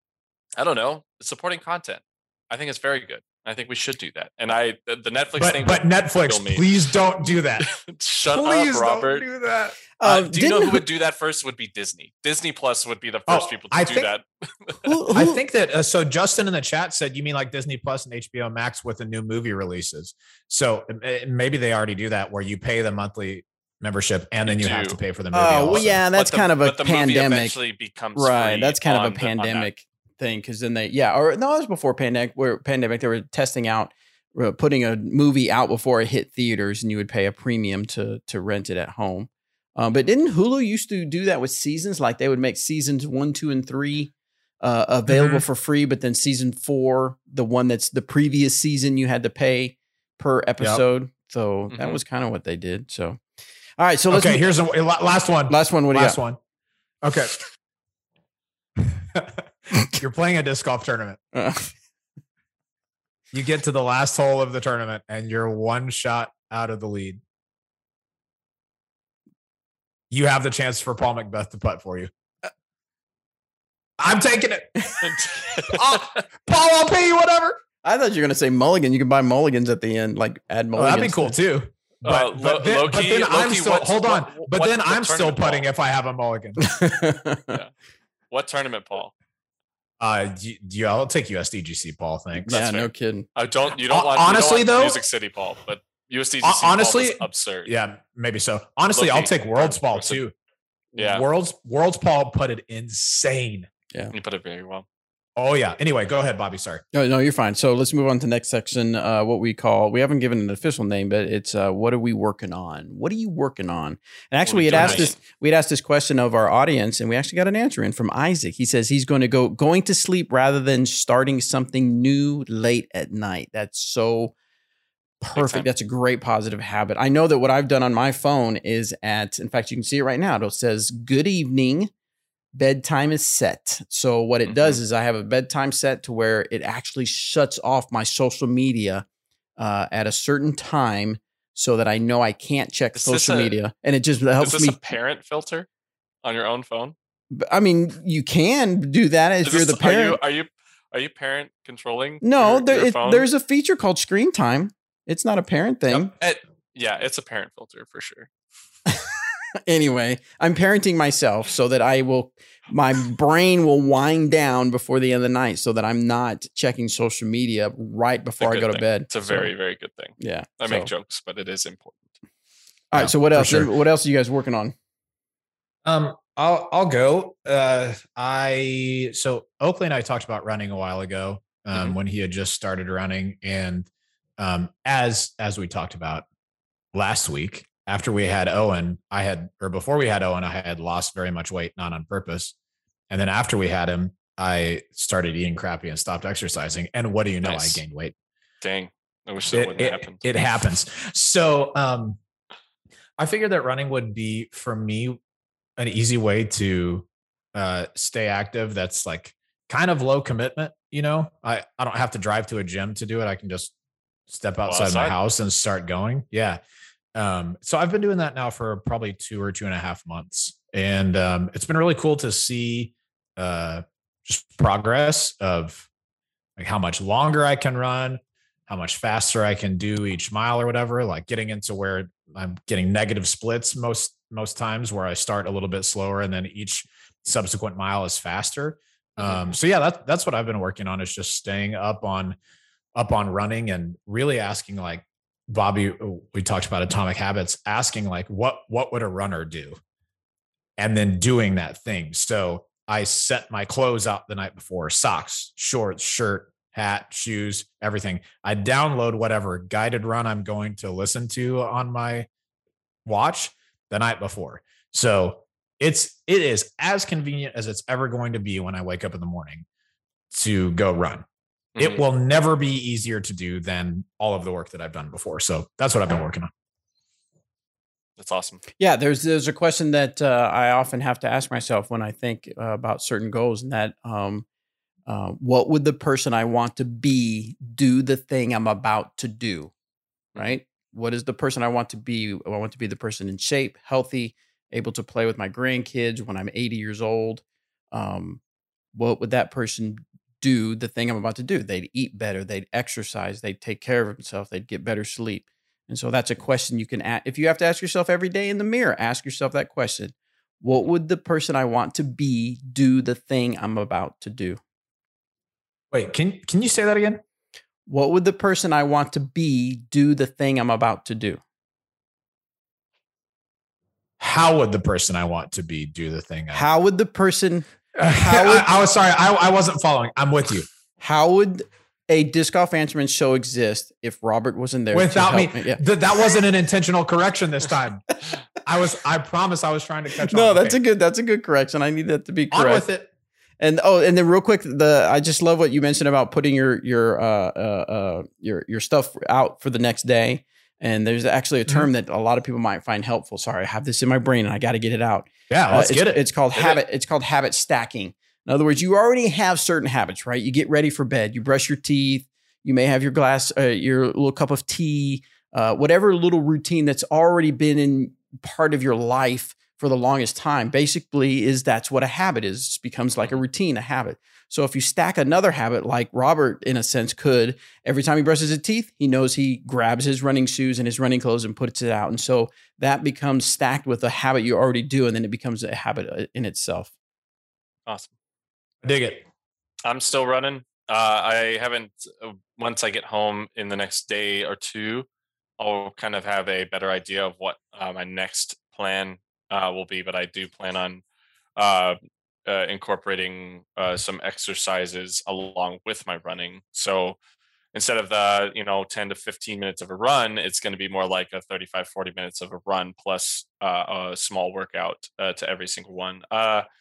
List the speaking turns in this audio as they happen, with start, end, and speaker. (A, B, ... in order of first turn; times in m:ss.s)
0:00.6-0:06.8 A
0:05.4-0:07.7 B
0:07.6-0:09.2 A
0:08.3-0:09.8 B
0:10.0-0:10.8 C
0:10.0-0:15.0 A
0:13.3-0:14.1 B
0:14.8-0:15.4 C
0:15.1-0:26.0 B
0:24.4-0:25.0 A
0:25.3-0:27.5 C
0:25.7-0:29.7 A
0:28.1-0:53.2 C
0:45.1-0:45.4 B
0:51.7-0:52.0 A
0:53.8-0:54.5 C
0:54.1-0:56.4 B
0:55.5-0:56.2 C
0:57.0-0:57.3 B
0:58.8-1:01.2 B
0:59.7-1:00.0 C
1:01.3-1:01.7 C
1:03.3-1:07.2 B
1:10.1-1:12.1 B
1:14.0-1:17.6 B
1:15.0-1:16.2 A
1:17.8-1:21.4 C
1:20.7-1:26.7 B
1:22.0-1:25.7 A
1:26.6-1:27.6 C
1:28.3-1:29.1 A
1:30.0-1:32.6 B
1:32.4-1:33.3 C
1:32.5-1:37.7 A
1:33.9-1:35.0 B
1:36.4-1:40.3 B
1:38.9-1:40.2 A
1:40.9-1:41.2 A
1:40.9-1:43.7 B
1:44.1-1:44.8 A
1:45.4-1:46.8 B
1:46.9-2:04.3 C
1:54.5-1:55.2 A
1:54.7-1:55.0 B
2:05.2-2:11.9 C
2:05.3-2:05.7 A
2:12.5-2:19.0 C
2:14.4-2:14.8 A
2:19.6-2:24.8 C
2:22.9-2:23.6 A
2:24.4-2:25.7 A
2:26.2-2:26.9 A
2:27.3-2:30.2 C
2:29.4-2:33.3 A
2:32.2-2:36.1 C
2:35.9-2:38.3 A
2:39.7-2:49.5 C
2:48.4-2:52.1 A
2:50.2-2:50.9 C
2:52.9-2:54.7 C
2:52.9-2:53.7 B
2:55.8-3:06.2 B
3:06.9-3:12.5 B
3:13.1-3:18.1 B
3:17.4-3:17.8 A
3:18.6-3:20.3 A
3:19.5-3:22.2 B
3:23.2-3:25.2 B
3:25.8-3:33.7 B
3:34.3-3:36.6 B
3:34.6-3:35.1 A
3:37.1-3:45.9 B
3:46.6-4:02.4 B
4:03.0-4:09.8 B
4:10.8-4:22.3 B
4:23.0-4:29.6 B
4:30.3-4:31.2 B
4:31.8-4:32.0 A
4:31.8-4:36.5 B
4:38.2-4:38.6 A
4:38.8-4:44.4 C
4:45.1-4:49.7 C
4:50.3-4:58.4 C
4:58.9-5:14.6 C
5:15.9-5:17.2 B
5:17.9-5:21.4 C
5:24.2-5:26.6 B
5:26.5-5:28.7 C
5:28.0-5:30.7 B
5:31.0-5:35.8 C
5:34.9-5:40.8 B
5:40.3-5:42.8 C
5:42.5-5:43.1 B
5:43.6-6:26.9 C
5:55.5-5:56.2 B
6:27.9-6:28.1 A
6:28.8-6:29.2 B
6:29.8-6:35.1 A
6:35.6-6:41.0 A
6:41.6-6:47.2 A
6:47.7-6:56.6 A